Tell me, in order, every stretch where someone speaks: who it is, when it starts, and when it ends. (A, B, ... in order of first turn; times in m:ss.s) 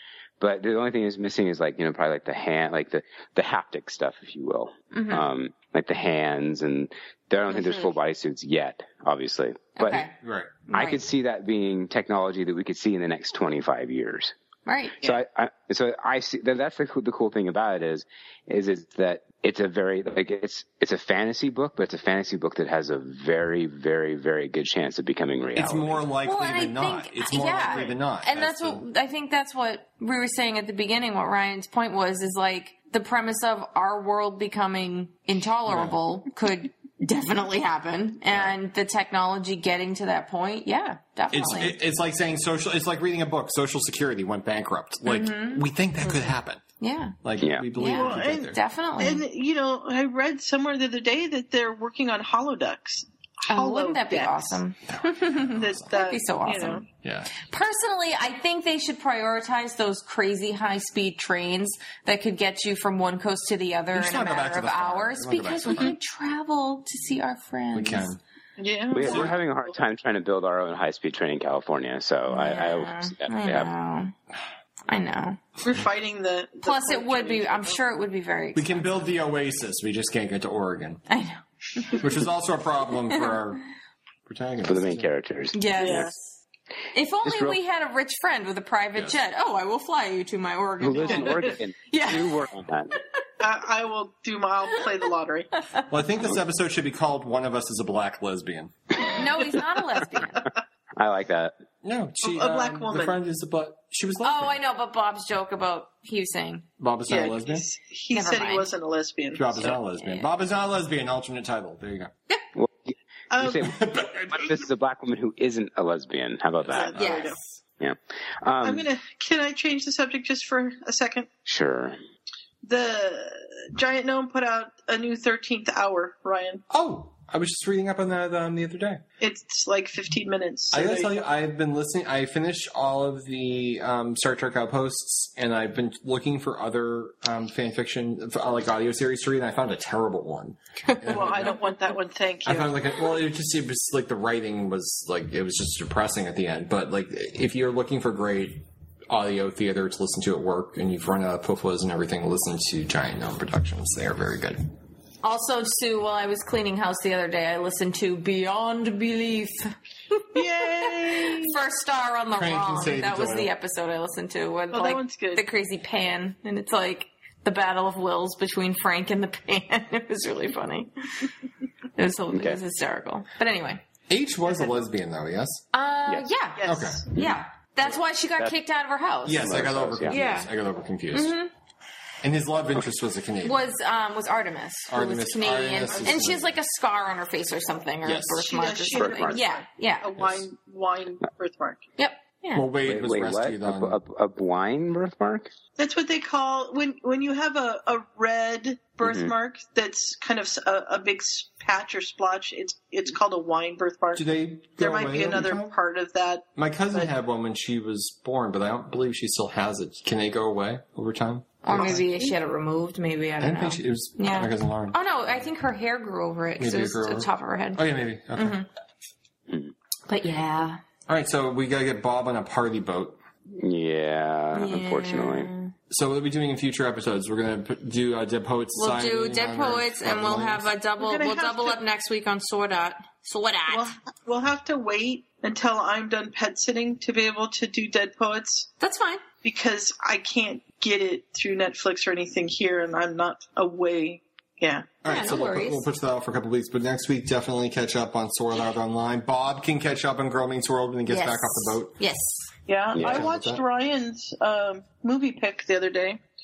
0:00.4-0:10.0 A
0:04.9-0:05.2 B
0:07.5-0:07.9 B
0:09.8-0:10.1 B
0:10.2-0:10.5 C
0:10.7-0:11.0 B
0:10.7-0:14.3 A
0:14.6-0:15.0 B
0:15.0-0:26.1 A
0:25.6-0:28.8 C
0:26.2-0:41.8 B
0:35.7-0:36.0 C
0:41.3-0:46.6 C
0:45.0-0:45.6 B
0:46.8-0:47.2 B
0:47.2-0:48.6 C
0:47.4-0:47.7 A
0:47.8-0:49.2 B
0:47.9-0:54.6 D
0:53.5-0:56.8 B
0:54.9-0:55.9 C
0:55.5-0:56.8 D
0:57.0-0:57.4 C
0:57.4-1:08.1 B
1:03.9-1:05.9 C
1:07.7-1:08.2 C
1:08.6-1:09.3 D
1:08.9-1:13.7 A
1:09.0-1:09.3 C
1:12.3-1:14.1 B
1:14.9-1:15.4 B
1:15.6-1:17.8 D
1:16.6-1:19.1 B
1:18.5-1:21.0 C
1:21.1-1:22.2 B
1:21.9-1:23.6 C
1:23.1-1:23.4 B
1:24.3-1:25.1 C
1:24.6-1:26.1 A
1:25.5-1:26.4 B
1:25.8-1:26.1 D
1:26.9-1:33.0 B
1:27.2-1:27.6 A
1:30.8-1:33.0 A
1:31.0-1:31.5 D
1:33.4-1:35.5 D
1:35.9-1:39.0 C
1:39.1-1:40.4 B
1:41.0-1:41.5 A
1:41.8-1:44.6 C
1:42.2-1:43.2 D
1:44.2-1:46.6 B
1:46.8-1:47.7 C
1:47.1-1:49.8 D
1:48.1-1:48.7 B
1:49.3-1:52.1 C
1:49.8-1:50.3 B
1:52.5-1:57.0 A
1:53.3-1:53.6 D
1:53.6-1:54.6 C
1:56.7-1:57.4 D
1:56.9-1:57.2 C
1:57.0-1:57.4 B
1:57.8-1:58.8 A
1:58.6-2:01.3 D
2:01.4-2:02.0 A
2:02.6-2:06.6 D
2:06.7-2:09.0 C
2:09.2-2:11.2 D
2:10.7-2:21.6 C
2:21.0-2:22.8 D
2:22.4-2:34.6 C
2:35.2-2:51.3 B
2:40.3-2:41.6 D
2:42.4-2:43.5 C
2:44.7-2:45.4 D
2:52.0-2:53.8 B
2:52.3-2:52.6 A
2:54.1-2:55.6 C
2:55.7-3:00.5 B
2:56.6-2:57.0 D
2:56.6-2:57.1 C
2:57.1-2:58.5 A
2:59.2-3:01.4 C
2:59.3-3:00.2 A
3:01.1-3:01.5 B
3:02.2-3:03.6 C
3:03.4-3:10.2 B
3:04.9-3:06.5 C
3:05.9-3:06.4 D
3:08.0-3:08.5 C
3:08.4-3:11.8 D
3:08.9-3:09.4 A
3:12.0-3:12.7 B
3:12.5-3:14.0 C
3:12.8-3:15.5 A
3:15.8-3:27.1 D
3:19.0-3:19.3 A
3:24.1-3:25.8 C
3:26.6-3:32.1 C
3:31.6-3:38.7 B
3:31.7-3:32.3 D
3:33.4-3:35.0 C
3:36.6-3:38.6 C
3:40.1-3:40.8 B
3:41.1-3:43.2 C
3:43.5-3:45.5 A
3:44.5-3:45.7 B
3:45.9-3:50.7 C
3:48.7-3:53.9 B
3:51.0-3:51.8 D
3:53.7-3:58.7 D
3:58.8-3:59.2 B
3:59.4-4:05.0 D
4:05.0-4:11.9 C
4:05.0-4:05.8 B
4:11.1-4:12.5 B
4:12.7-4:16.2 D
4:12.9-4:13.3 A
4:13.0-4:13.6 C